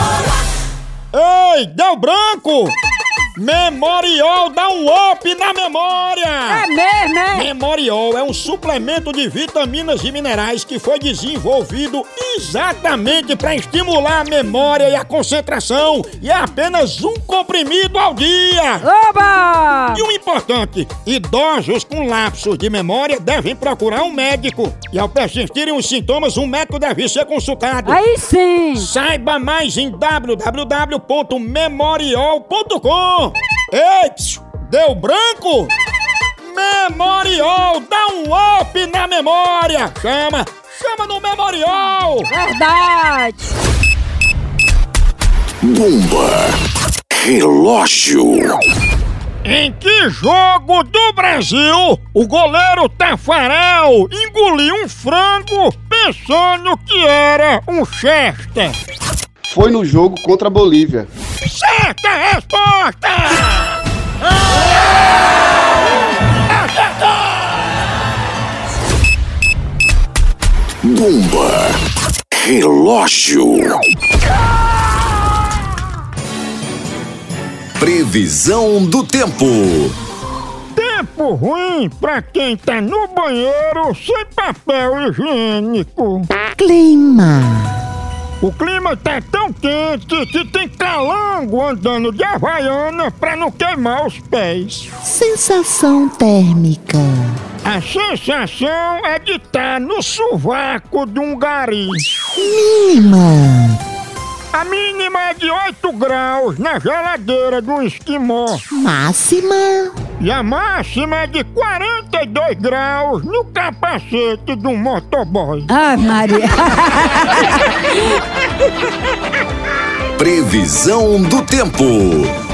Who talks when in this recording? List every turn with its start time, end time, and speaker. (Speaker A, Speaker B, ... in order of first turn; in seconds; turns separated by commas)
Speaker A: 1.1-2.7, Speaker A: 3.4-6.7, Speaker B: 6.5-7.5, Speaker A: 7.3-18.9, Speaker B: 18.8-20.0, Speaker A: 19.9-28.0, Speaker B: 27.8-28.9, Speaker A: 28.8-35.7, Speaker A: 36.4-42.3, Speaker B: 42.3-43.5, Speaker C: 45.6-46.2, Speaker C: 47.1-48.5, Speaker D: 47.9-48.4, Speaker A: 49.4-58.8, Speaker D: 59.5-61.1, Speaker A: 61.4-63.7, Speaker C: 70.8-71.7, Speaker C: 72.3-73.6, Speaker C: 77.8-80.0, Speaker A: 80.7-86.3, Speaker E: 86.4-87.8, Speaker A: 88.4-94.8, Speaker E: 95.0-97.4, Speaker A: 97.6-102.0, Speaker E: 102.3-103.8, Speaker A: 104.5-108.6, Speaker E: 108.7-109.9, Speaker A: 110.2-115.7, Speaker B: 115.7-117.5, Speaker C: 120.2-122.3